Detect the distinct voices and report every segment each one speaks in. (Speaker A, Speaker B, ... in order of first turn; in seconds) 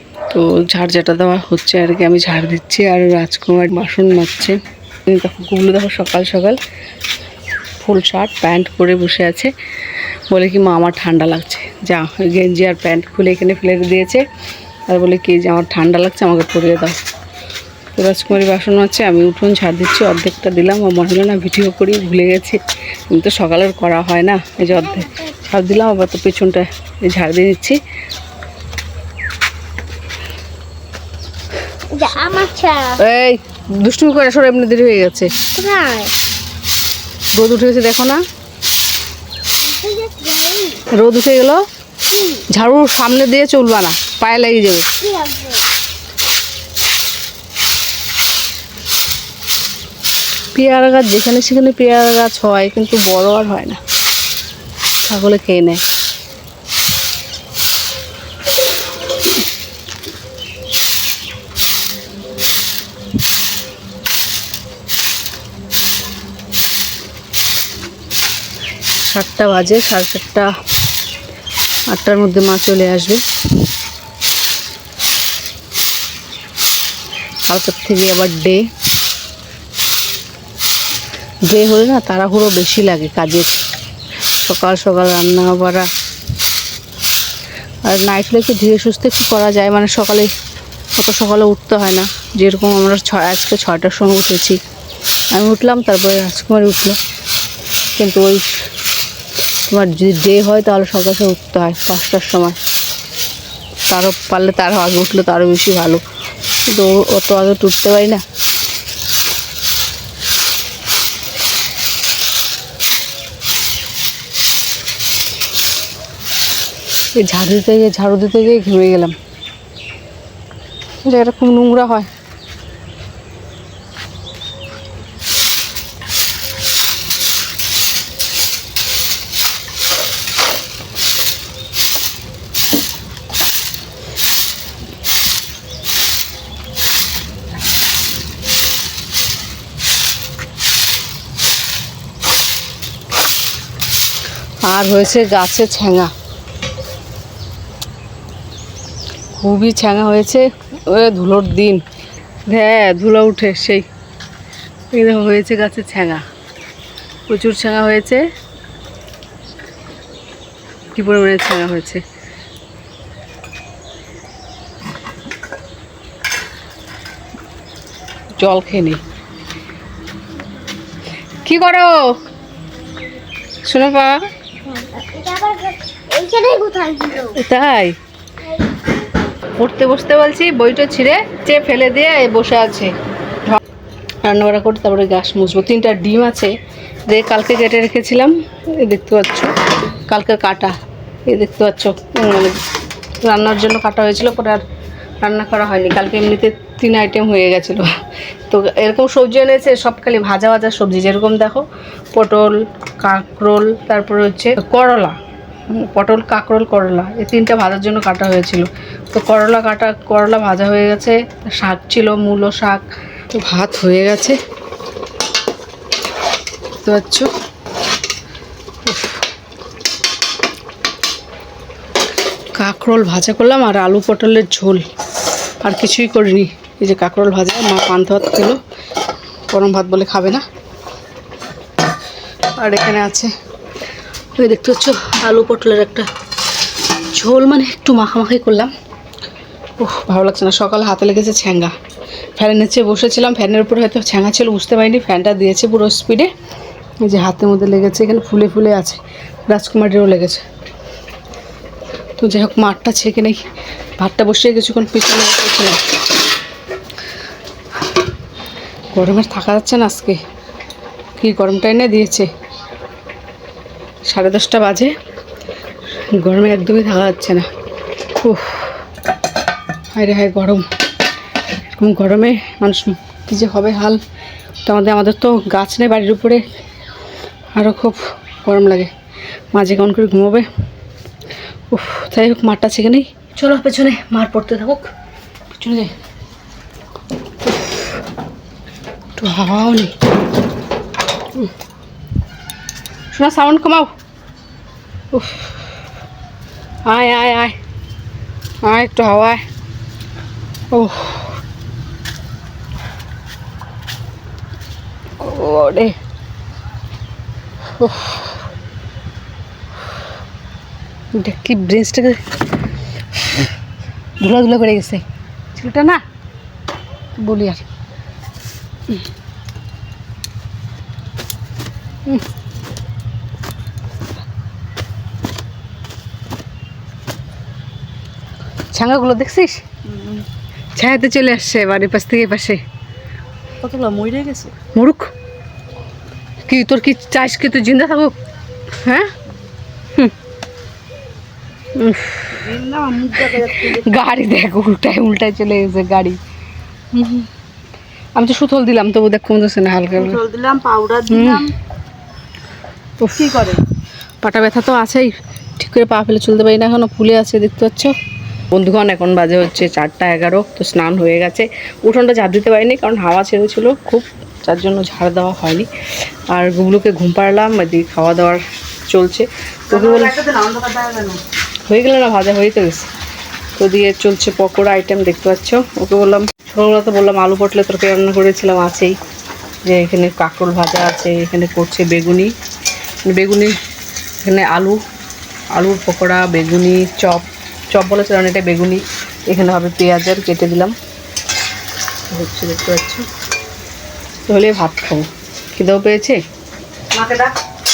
Speaker A: 0.3-6.6, 7.8-9.5, 10.3-14.2, 14.9-17.0, 17.9-27.8, 33.0-35.3, 37.3-38.2, 40.9-41.6, 42.5-44.9, 50.5-53.8, 55.0-55.8, 69.0-70.5, 71.9-73.2, 77.5-78.7, 81.5-83.6, 84.4-85.9, 87.8-90.3, 91.0-94.6, 95.3-97.0, 98.0-98.6, 99.7-102.6, 103.9-106.0, 106.7-108.2, 117.2-119.2, 121.0-122.1, 144.6-146.1, 149.4-151.8, 152.5-153.8, 154.9-156.2, 157.3-158.2, 160.9-162.0, 168.4-169.0, 171.4-172.2, 173.6-174.3, 177.3-177.9, 179.6-182.9, 184.2-186.5, 187.1-189.5, 190.1-190.8, 191.3-192.6, 193.2-194.6, 195.2-197.9, 198.5-205.2, 205.7-214.4, 216.8-217.3, 218.9-219.2, 222.5-224.8, 225.6-228.6, 229.5-230.4, 232.5-233.3, 234.3-236.1, 237.1-238.7, 239.8-241.7, 242.3-246.3, 247.0-250.4, 252.2-253.4, 254.0-255.8, 258.9-260.2, 261.2-262.3, 264.1-264.9, 266.1-267.4, 268.2-268.8, 269.9-270.7, 271.7-274.0, 274.6-276.4, 277.5-278.9, 279.5-280.5, 281.7-284.9, 285.5-285.9, 289.2-290.0, 293.1-293.9, 295.1-295.5, 296.9-297.6, 298.6-299.4, 300.7-301.4, 305.2-305.9, 307.8-308.3, 311.1-312.3, 313.1-313.4, 314.2-315.0, 315.6-316.0, 317.2-317.6, 328.7-329.8, 330.8-332.6, 334.6-335.1, 336.4-338.1, 338.7-339.1, 341.7-346.2, 346.9-347.3, 348.1-350.2, 351.1-351.5, 353.0-353.6, 354.2-357.9, 358.5-365.7, 366.3-370.2, 371.7-372.9, 373.6-379.0, 379.6-382.3, 383.0-383.6, 384.2-384.8, 385.5-390.7, 392.1-393.0, 394.3-396.2, 396.9-397.3
Speaker B: 31.9-33.0, 35.5-36.1, 39.6-40.8, 42.1-42.4, 45.0-45.6, 174.6-177.4
Speaker C: 333.6-334.5, 342.5-343.8, 350.0-351.5, 353.2-353.6, 369.8-371.2